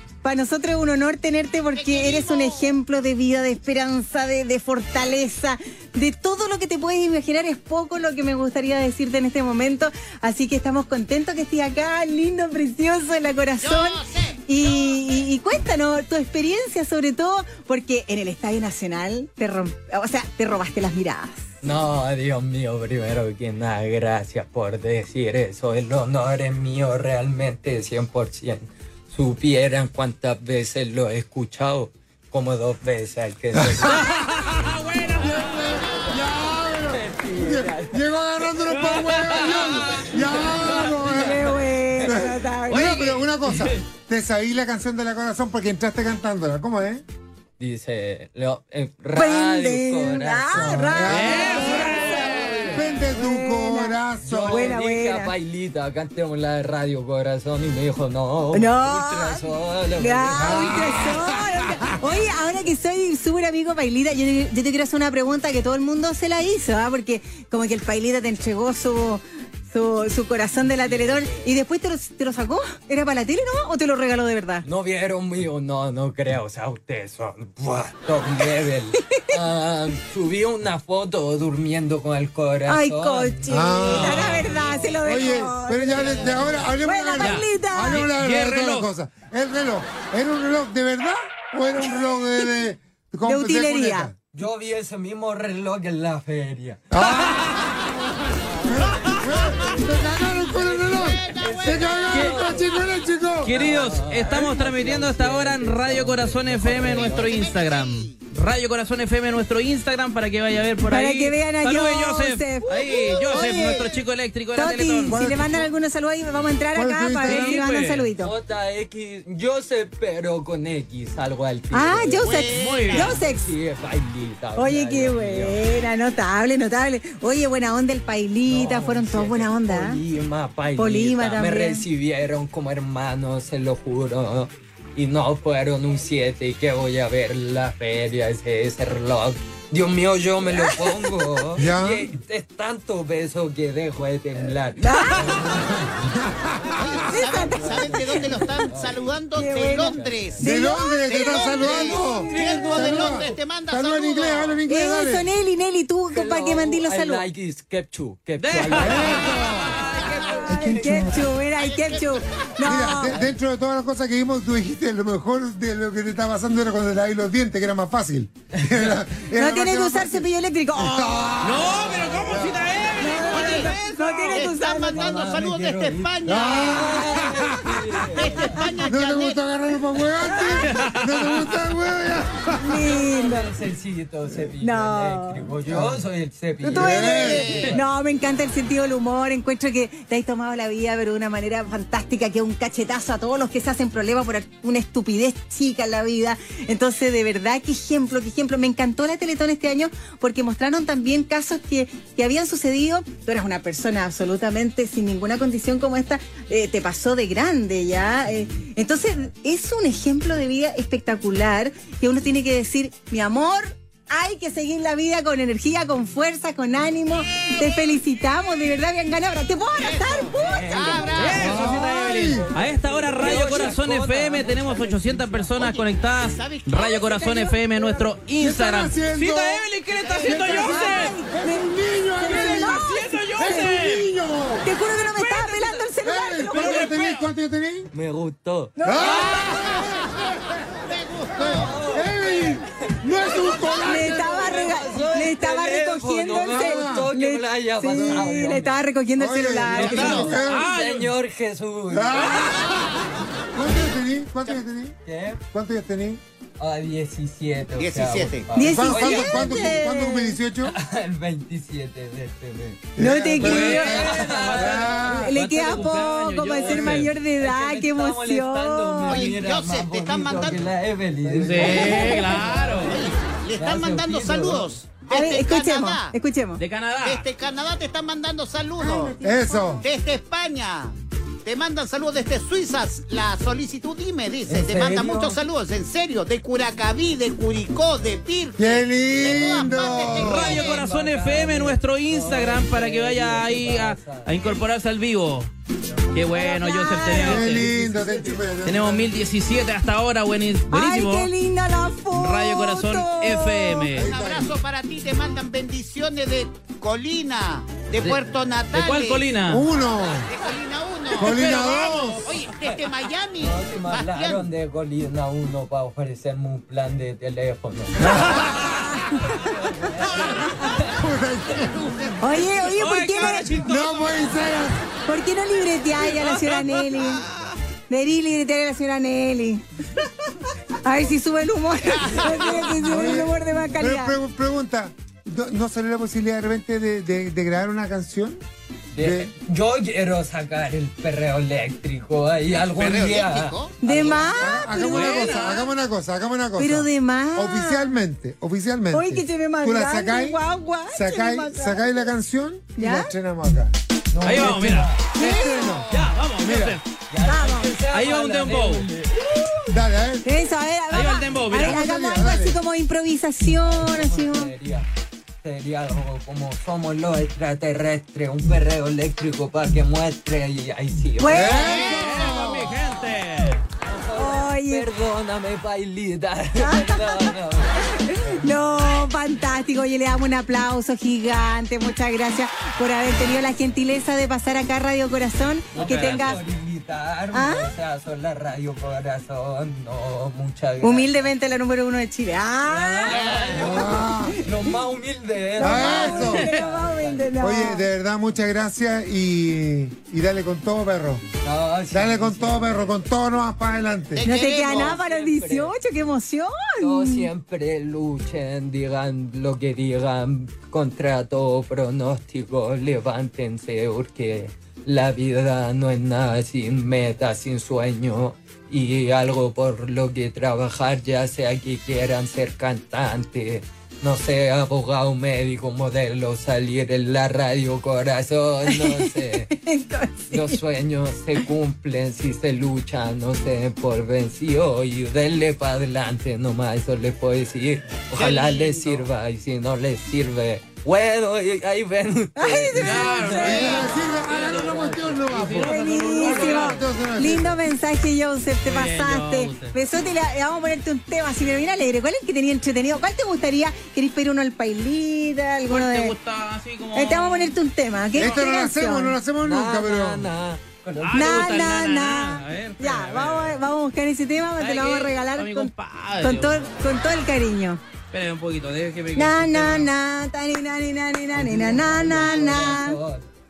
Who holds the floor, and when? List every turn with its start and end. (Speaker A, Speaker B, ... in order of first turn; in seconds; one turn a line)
Speaker A: 0.2-21.5
Speaker B: 1.8-2.8
Speaker B: 13.6-14.4
Speaker C: 21.6-34.1
Speaker D: 33.6-34.3
Speaker E: 33.9-35.8
Speaker D: 35.2-41.5
Speaker C: 36.8-42.1
Speaker E: 38.9-40.1
Speaker E: 40.7-41.0
Speaker A: 41.1-42.9
Speaker D: 42.0-47.0
Speaker E: 42.7-43.8
Speaker C: 47.6-50.8
Speaker A: 49.1-55.4
Speaker D: 50.5-51.6
Speaker E: 51.1-52.7
Speaker C: 51.5-52.8
Speaker D: 52.7-54.8
Speaker C: 54.2-60.9
Speaker A: 58.5-74.7
Speaker D: 60.3-61.5
Speaker C: 70.6-71.5
Speaker C: 74.7-85.3
Speaker A: 78.9-79.4
Speaker A: 82.7-88.1
Speaker D: 83.5-94.1
Speaker E: 83.9-84.6
Speaker E: 87.2-88.9
Speaker A: 93.3-94.1
Speaker C: 94.3-97.1
Speaker D: 96.9-103.6
Speaker C: 98.3-102.8
Speaker B: 100.6-102.4
Speaker E: 102.1-102.4
Speaker E: 103.4-115.2
Speaker C: 103.5-107.4
Speaker B: 106.8-108.2
Speaker A: 110.9-113.9
Speaker B: 113.3-113.7
Speaker A: 114.5-118.3
Speaker D: 115.1-115.7
Speaker D: 116.7-117.6
Speaker E: 117.3-118.1
Speaker C: 118.1-125.6
Speaker A: 121.7-123.5
Speaker B: 122.2-123.2
Speaker E: 122.6-123.1
Speaker A: 124.5-130.0
Speaker C: 128.4-150.4
Speaker A: 130.8-131.8
Speaker A: 140.5-141.2
Speaker D: 141.6-142.1
Speaker A: 144.8-145.5
Speaker B: 146.7-154.6
Speaker A: 147.1-148.7
Speaker A: 149.3-151.5
Speaker D: 150.4-155.3
Speaker C: 151.6-153.4
Speaker A: 154.7-157.3
Speaker C: 156.1-159.8
Speaker E: 158.4-160.5
Speaker D: 158.7-159.9
Speaker B: 159.8-160.4
Speaker A: 160.2-163.2
Speaker D: 160.5-161.3
Speaker B: 161.5-162.8
Speaker D: 162.6-172.7
Speaker C: 168.6-169.0
Speaker A: 169.3-171.4
Speaker E: 171.4-174.4
Speaker A: 173.0-175.2
Speaker B: 173.2-177.2
Speaker C: 174.9-178.7
Speaker D: 176.2-177.9
Speaker B: 178.0-179.4
Speaker D: 178.9-182.8
Speaker A: 180.3-180.7
Speaker E: 180.6-181.4
Speaker A: 182.6-183.5
Speaker C: 182.9-187.9
Speaker A: 184.6-185.5
Speaker D: 185.7-186.0
Speaker A: 186.6-221.3
Speaker D: 186.7-187.5
Speaker B: 187.1-187.7
Speaker B: 219.8-221.7
Speaker C: 220.2-221.7
Speaker E: 221.1-231.2
Speaker D: 221.3-222.5
Speaker C: 222.3-225.6
Speaker B: 225.5-227.3
Speaker A: 227.1-228.0
Speaker D: 228.4-229.7
Speaker B: 229.9-230.9
Speaker D: 230.2-232.8
Speaker A: 230.6-233.7
Speaker E: 232.2-234.1
Speaker D: 233.4-234.7
Speaker A: 234.6-237.1
Speaker E: 235.0-235.9
Speaker D: 236.0-237.9
Speaker E: 236.5-237.3
Speaker C: 237.9-239.3
Speaker A: 238.8-239.8
Speaker D: 238.8-240.5
Speaker B: 240.8-241.8
Speaker D: 241.4-244.6
Speaker C: 241.4-243.0
Speaker A: 243.8-250.4
Speaker C: 244.0-248.8
Speaker D: 246.5-247.1
Speaker D: 247.9-248.3
Speaker D: 249.2-250.7
Speaker C: 249.6-252.6
Speaker B: 249.9-250.4
Speaker E: 249.9-251.1
Speaker D: 251.9-252.9
Speaker D: 253.5-255.0
Speaker C: 254.4-255.4
Speaker D: 255.5-256.2
Speaker C: 256.6-259.6
Speaker B: 257.8-258.5
Speaker A: 258.5-260.4
Speaker D: 258.6-260.7
Speaker C: 260.6-265.0
Speaker D: 263.0-265.4
Speaker A: 263.0-264.4
Speaker E: 263.4-267.1
Speaker A: 265.0-269.3
Speaker C: 266.5-272.9
Speaker D: 266.6-267.1
Speaker B: 269.1-270.7
Speaker E: 271.2-273.1
Speaker D: 271.6-272.3
Speaker B: 271.7-276.1
Speaker C: 273.6-274.8
Speaker A: 275.1-276.6
Speaker E: 276.6-277.3
Speaker B: 277.0-279.2
Speaker A: 278.8-279.9
Speaker D: 279.2-279.9
Speaker B: 279.8-290.9
Speaker C: 284.5-285.4
Speaker D: 288.6-290.7
Speaker C: 289.2-294.6
Speaker E: 290.2-295.5
Speaker E: 296.1-297.7
Speaker A: 296.3-297.5
Speaker D: 297.1-299.1
Speaker C: 297.4-298.5
Speaker E: 298.6-301.3
Speaker A: 300.7-303.9
Speaker E: 302.1-304.1
Speaker D: 303.9-304.5
Speaker B: 304.0-309.3
Speaker E: 308.0-309.7
Speaker D: 309.5-310.3
Speaker B: 310.0-314.5
Speaker D: 311.2-312.3
Speaker E: 311.3-311.7
Speaker C: 312.6-312.8
Speaker C: 313.4-318.3
Speaker D: 318.0-318.9
Speaker E: 318.3-318.8
Speaker C: 319.3-321.0
Speaker D: 320.9-322.2
Speaker A: 322.2-323.5
Speaker E: 322.8-324.1
Speaker C: 323.4-324.3
Speaker D: 323.5-324.8
Speaker A: 325.1-327.2
Speaker E: 326.0-327.5
Speaker A: 327.9-329.6
Speaker A: 330.4-334.2
Speaker B: 331.9-332.5
Speaker C: 332.1-333.8
Speaker D: 332.9-338.4
Speaker C: 338.9-344.7
Speaker D: 339.0-339.3
Speaker B: 342.5-343.8
Speaker A: 343.8-345.4
Speaker D: 344.1-353.8
Speaker E: 344.8-345.7
Speaker A: 346.6-348.0
Speaker A: 348.9-352.0
Speaker A: 352.8-353.1
Speaker C: 354.1-355.1
Speaker E: 354.2-354.9
Speaker D: 354.3-356.8
Speaker A: 355.1-355.9
Speaker E: 355.9-356.8
Speaker C: 357.1-359.6
Speaker A: 357.2-357.8
Speaker E: 357.9-358.9
Speaker D: 359.7-360.3
Speaker A: 360.2-364.5
Speaker E: 360.9-361.8
Speaker D: 361.5-362.6
Speaker C: 363.5-364.9
Speaker C: 365.4-372.3
Speaker A: 371.2-371.9
Speaker D: 371.3-372.8
Speaker E: 371.7-373.7
Speaker C: 373.8-378.7
Speaker A: 374.2-374.9
Speaker A: 376.6-377.4
Speaker A: 377.9-386.4
Speaker C: 385.8-391.4
Speaker A: 387.3-387.7
Speaker A: 390.8-394.8
Speaker C: 392.7-397.3
Speaker B: 393.1-393.5
Speaker D: 393.5-394.4
Speaker A: 395.6-397.9
Speaker D: 395.6-396.5
Speaker D: 397.4-401.2
Speaker C: 401.4-403.0
Speaker D: 401.9-404.3
Speaker B: 404.1-405.0
Speaker A: 404.2-407.3
Speaker C: 404.7-405.8
Speaker C: 406.8-429.5
Speaker A: 428.6-430.6
Speaker C: 430.3-445.5
Speaker B: 438.1-439.1
Speaker A: 442.4-443.8
Speaker E: 442.8-446.8
Speaker D: 443.4-447.6
Speaker A: 445.6-456.2
Speaker E: 448.6-449.8
Speaker E: 455.7-457.6
Speaker A: 456.9-459.2
Speaker D: 458.2-460.3
Speaker C: 459.4-461.7
Speaker E: 461.0-463.6
Speaker A: 461.1-467.8
Speaker E: 464.6-466.7
Speaker E: 468.1-469.9
Speaker A: 469.1-473.0
Speaker C: 471.3-473.2